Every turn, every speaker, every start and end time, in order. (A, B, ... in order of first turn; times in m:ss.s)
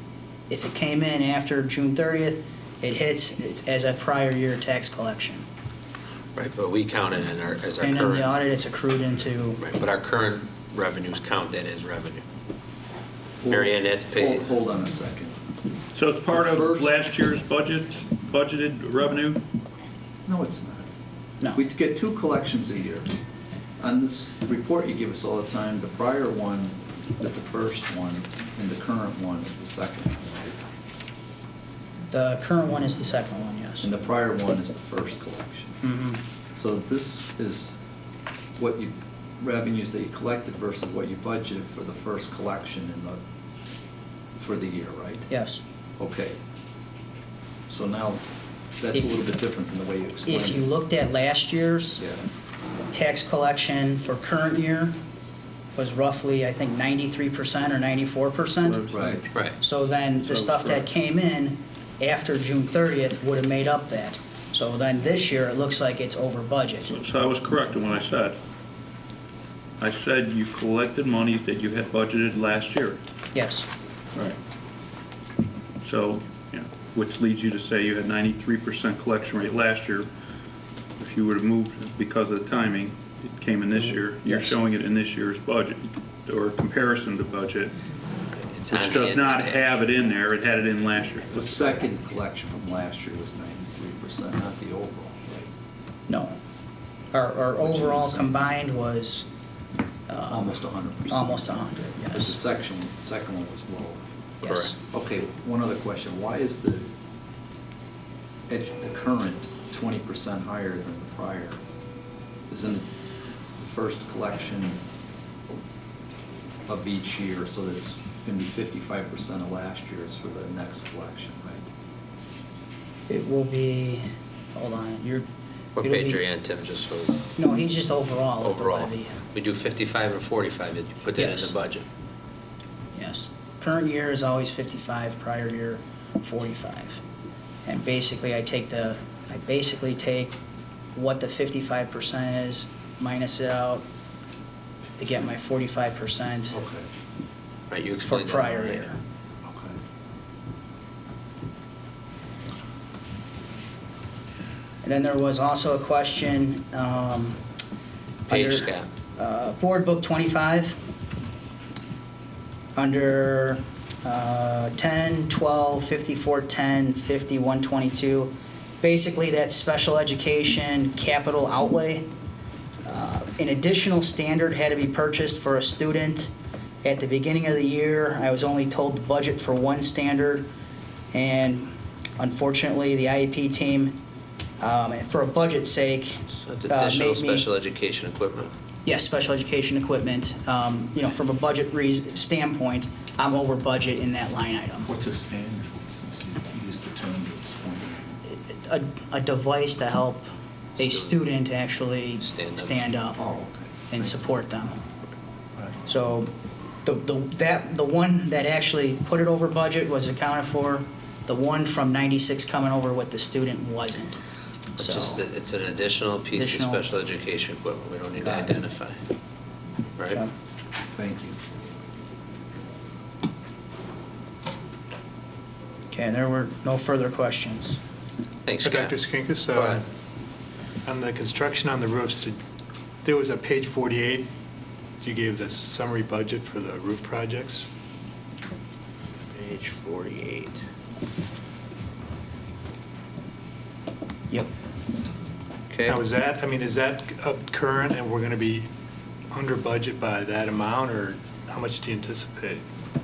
0:00.5-0:05.5 A
0:06.4-0:08.3 B
0:07.8-0:09.6 A
0:09.6-0:12.2 B
0:13.4-0:15.4 C
0:13.5-0:14.5 B
0:15.9-0:19.4 D
0:16.3-0:17.0 C
0:20.3-0:21.0 C
0:21.5-0:23.1 C
0:23.8-0:30.6 C
0:32.1-0:33.9 A
0:33.8-0:35.8 C
0:35.8-0:36.2 A
0:36.6-0:37.8 C
0:38.6-0:43.2 C
0:44.4-0:45.3 C
0:45.3-0:45.6 A
0:46.0-0:46.4 C
0:47.7-0:48.2 C
0:48.8-0:50.7 C
0:50.3-0:52.0 A
0:52.0-0:52.2 C
0:52.9-0:55.0 A
0:55.8-0:58.9 A
0:58.6-0:59.3 D
0:58.9-0:59.2 C
0:59.6-1:07.0 A
1:00.2-1:00.8 D
1:06.8-1:08.4 D
1:09.8-1:13.0 D
1:13.3-1:13.7 A
1:15.8-1:20.1 D
1:21.0-1:27.8 D
1:23.8-1:24.6 A
1:28.3-1:29.8 B
1:28.7-1:31.5 D
1:31.3-1:35.5 C
1:36.1-1:36.4 A
1:37.1-1:39.3 A
1:37.6-1:38.4 C
1:40.1-1:40.6 A
1:40.3-1:41.5 C
1:41.1-1:42.4 A
1:42.1-1:44.0 C
1:44.4-1:44.8 A
1:44.5-1:44.7 B
1:44.9-1:46.9 C
1:48.5-1:51.6 C
1:52.5-1:52.9 C
1:53.6-1:54.8 C
1:56.7-2:01.7 C
2:03.1-2:05.3 A
2:05.8-2:07.3 B
2:05.8-2:06.2 A
2:07.4-2:09.2 A
2:08.4-2:11.8 B
2:11.1-2:11.5 A
2:12.9-2:17.0 A
2:17.7-2:20.4 A
2:21.0-2:23.8 A
2:25.0-2:26.6 A
2:26.5-2:26.9 C
2:27.7-2:28.9 B
2:28.1-2:29.0 A
2:29.4-2:29.8 C
2:34.8-2:37.4 A
2:38.3-2:38.9 B
2:38.3-2:40.8 A
2:42.8-2:52.1 A
2:52.8-2:56.3 A
2:56.8-3:00.5 A
3:01.1-3:04.0 A
3:04.6-3:07.5 A
3:06.4-3:08.5 B
3:08.8-3:14.9 A
3:14.8-3:18.2 C
3:18.3-3:23.2 A
3:20.8-3:21.2 B
3:22.2-3:22.9 B
3:23.2-3:23.8 C
3:23.9-3:24.8 A
3:25.9-3:26.3 A
3:26.8-3:34.2 A
3:34.8-3:35.2 A
3:34.8-3:39.0 B
3:36.3-3:36.8 A
3:40.9-3:41.4 C
3:45.9-3:47.8 A
3:48.4-3:49.0 B
3:48.6-3:49.9 E
3:49.5-3:49.8 B
3:50.8-3:52.4 E
3:53.0-3:54.3 E
3:55.0-3:57.7 E
3:59.3-4:00.6 B
4:05.7-4:06.0 B
4:05.9-4:08.7 E
4:09.3-4:12.6 E